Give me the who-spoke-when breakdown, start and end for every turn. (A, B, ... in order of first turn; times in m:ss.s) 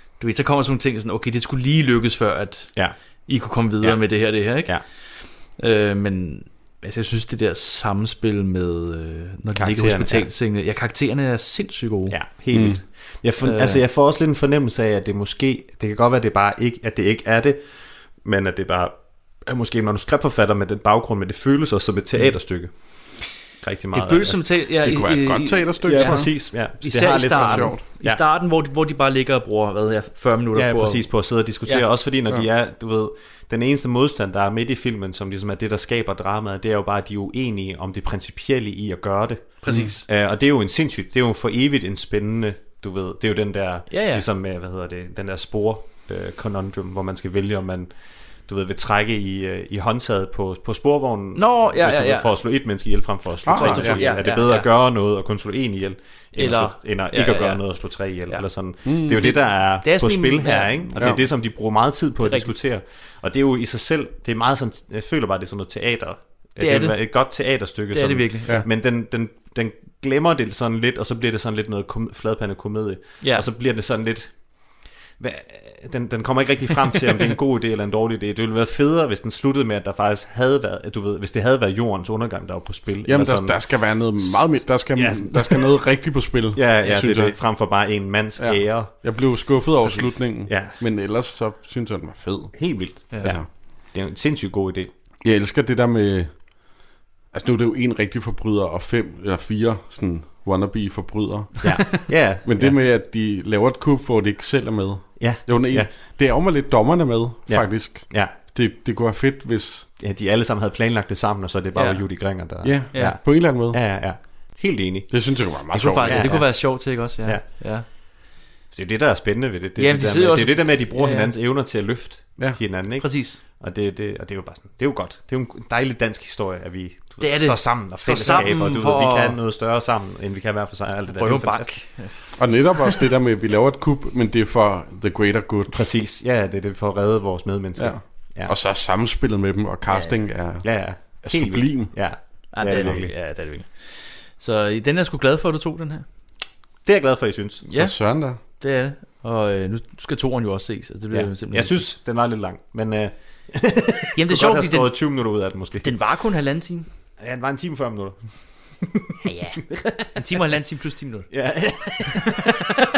0:00.2-0:12.2 A
0:03.8-0:04.8 B
0:09.6-0:10.3 B
0:12.1-0:24.5 B
0:12.5-0:12.8 C
0:13.4-0:13.8 A
0:23.9-0:31.8 A
0:24.8-0:26.3 C
0:25.8-0:28.2 B
0:27.3-0:27.8 C
0:30.5-1:25.9 B
0:39.6-0:40.0 A
0:39.7-0:39.9 C
0:43.9-0:44.2 A
0:51.4-0:52.3 A
0:53.4-0:54.1 C
0:53.5-0:54.7 A
0:56.3-1:01.3 A
0:58.8-0:59.3 C
1:02.2-1:02.5 A
1:06.6-1:08.6 A
1:13.2-1:13.4 A
1:23.0-1:27.4 C
1:26.5-1:30.8 B
1:28.4-1:33.5 C
1:32.6-1:34.9 B
1:35.2-1:36.7 C
1:37.3-1:49.9 C
1:41.6-1:42.8 B
1:45.2-1:45.9 B
1:47.5-1:48.4 B
1:50.0-1:55.2 B
1:51.7-1:53.2 A
1:52.6-1:53.8 C
1:55.1-1:56.4 C
1:55.7-1:57.8 A
1:56.0-1:58.0 B
1:58.7-2:12.0 B
1:59.8-2:01.3 A
2:03.0-2:03.4 A
2:07.2-2:09.4 A
2:11.1-2:12.4 A
2:12.4-2:15.7 C
2:15.7-2:18.5 B
2:17.8-2:22.0 C
2:19.9-2:20.1 A
2:20.6-2:23.1 B
2:22.5-2:26.0 A
2:22.7-2:23.0 C
2:26.8-2:27.6 B
2:27.7-2:28.0 A
2:27.7-2:28.4 C
2:28.6-2:31.8 A
2:31.1-2:35.9 B
2:34.2-2:36.9 A
2:37.2-2:39.1 B
2:39.2-2:41.3 A
2:39.7-2:40.1 B
2:41.3-2:42.4 B